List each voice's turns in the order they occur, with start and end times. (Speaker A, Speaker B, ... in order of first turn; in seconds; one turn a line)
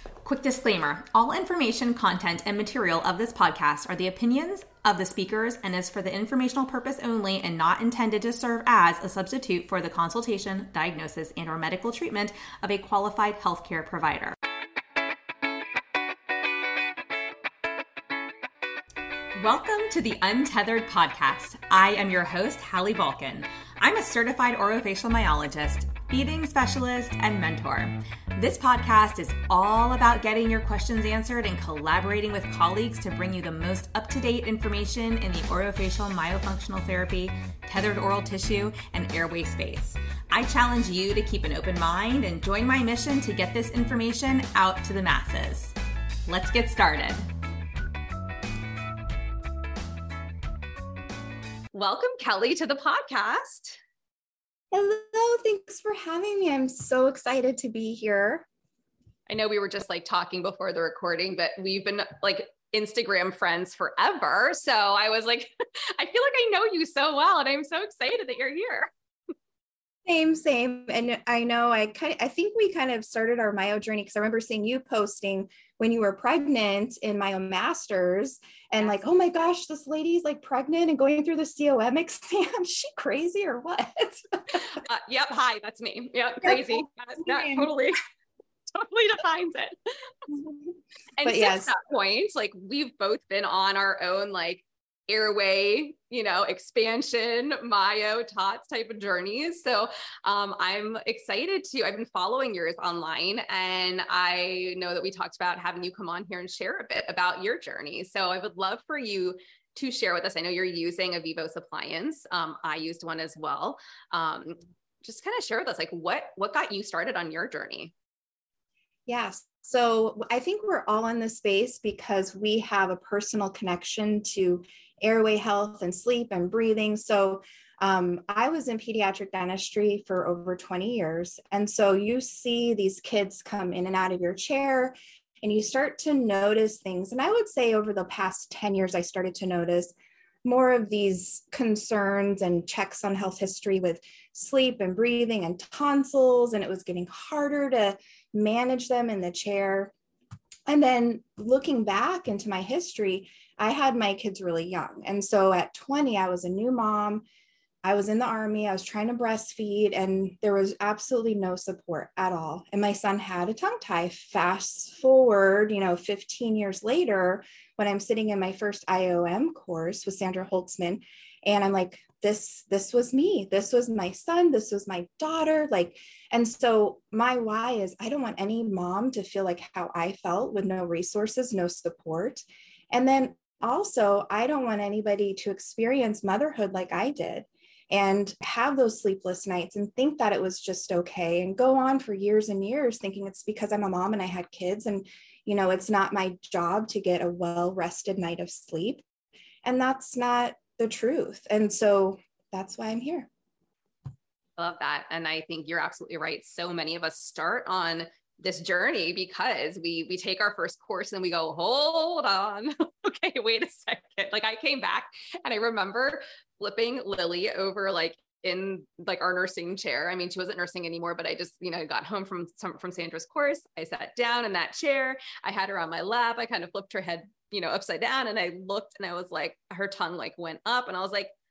Speaker A: 0.2-14.3
Speaker A: 19.4-45.7
Speaker A: 46.3-47.2
Speaker A: 51.7-53.8
Speaker B: 54.7-58.5
Speaker A: 59.3-68.9
Speaker B: 70.0-84.7
Speaker A: 84.6-88.0
Speaker B: 86.4-87.7
Speaker A: 88.7-89.7
Speaker B: 90.3-90.7
Speaker A: 91.2-117.9
Speaker B: 91.2-91.7
Speaker B: 119.1-149.9
Speaker B: 150.7-157.2
Speaker B: 157.8-199.0
Speaker B: 199.6-203.3
Speaker A: 204.6-231.3